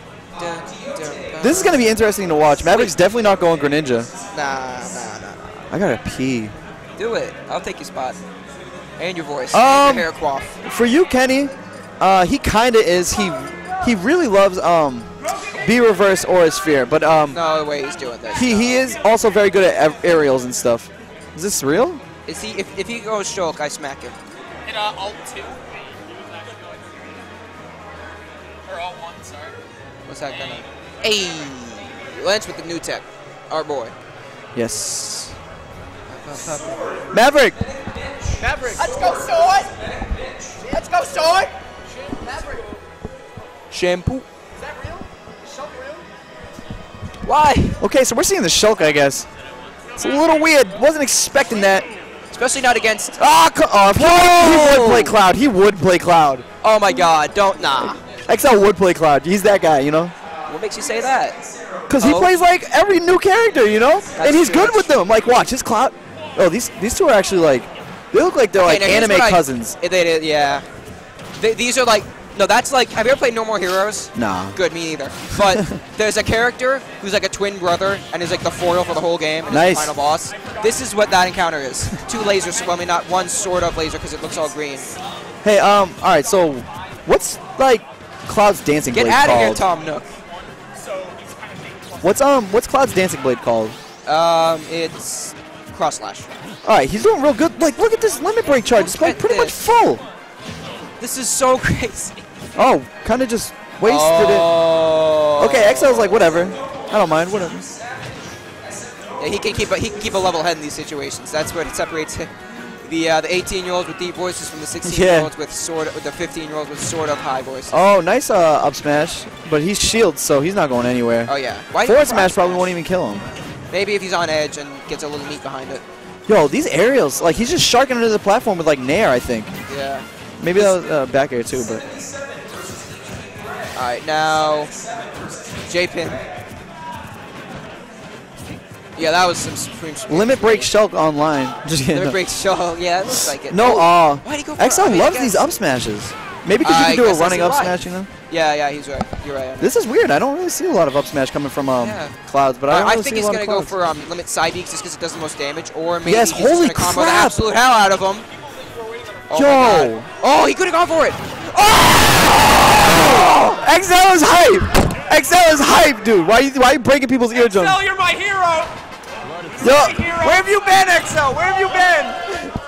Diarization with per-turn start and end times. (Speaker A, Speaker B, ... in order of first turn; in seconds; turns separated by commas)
Speaker A: 0.4-1.9, Speaker B: 1.4-4.1, Speaker A: 2.7-2.9, Speaker A: 4.3-5.7, Speaker B: 5.7-6.5, Speaker A: 7.0-8.2, Speaker A: 9.0-10.6, Speaker B: 9.5-10.1, Speaker B: 10.6-17.4, Speaker A: 17.3-18.7, Speaker B: 18.3-22.0, Speaker A: 22.2-24.2, Speaker C: 24.7-25.6, Speaker C: 28.7-29.6, Speaker A: 30.1-33.9, Speaker B: 34.5-35.4, Speaker A: 36.1-36.9, Speaker B: 37.1-37.6, Speaker A: 38.4-39.7, Speaker A: 40.6-41.5, Speaker A: 43.7-44.2, Speaker A: 47.2-47.8, Speaker B: 47.8-49.3, Speaker B: 50.0-51.9, Speaker A: 52.3-53.2, Speaker B: 53.2-56.5, Speaker A: 53.9-55.2, Speaker A: 56.6-58.0, Speaker B: 57.8-60.1, Speaker A: 60.5-61.4, Speaker B: 61.9-69.8, Speaker A: 62.0-62.3, Speaker A: 64.2-64.9, Speaker A: 68.6-70.6, Speaker A: 71.4-84.9, Speaker B: 74.2-74.6, Speaker B: 75.5-75.8, Speaker B: 79.5-80.0, Speaker B: 85.4-89.6, Speaker A: 88.9-90.1, Speaker B: 92.0-93.8, Speaker A: 94.0-96.3, Speaker B: 96.6-100.0, Speaker A: 98.7-99.7, Speaker A: 101.0-102.2, Speaker B: 102.5-104.5, Speaker A: 103.8-106.5, Speaker B: 105.4-107.7, Speaker A: 109.2-112.3, Speaker A: 112.8-117.8, Speaker B: 114.8-115.3, Speaker B: 117.7-121.3, Speaker A: 121.2-122.7, Speaker B: 121.8-123.3, Speaker A: 123.7-125.8, Speaker B: 126.3-129.5, Speaker A: 129.7-130.8, Speaker B: 130.4-131.8, Speaker A: 133.7-134.7, Speaker A: 135.7-136.2, Speaker A: 139.0-140.7, Speaker B: 140.1-142.2, Speaker A: 141.9-145.4, Speaker B: 143.3-148.1, Speaker A: 146.6-149.8, Speaker B: 149.6-153.7, Speaker A: 151.8-152.2, Speaker A: 152.7-158.2, Speaker B: 156.1-157.4, Speaker A: 159.3-163.2, Speaker B: 159.3-160.1, Speaker B: 161.6-167.9, Speaker C: 167.8-168.7, Speaker B: 169.6-172.5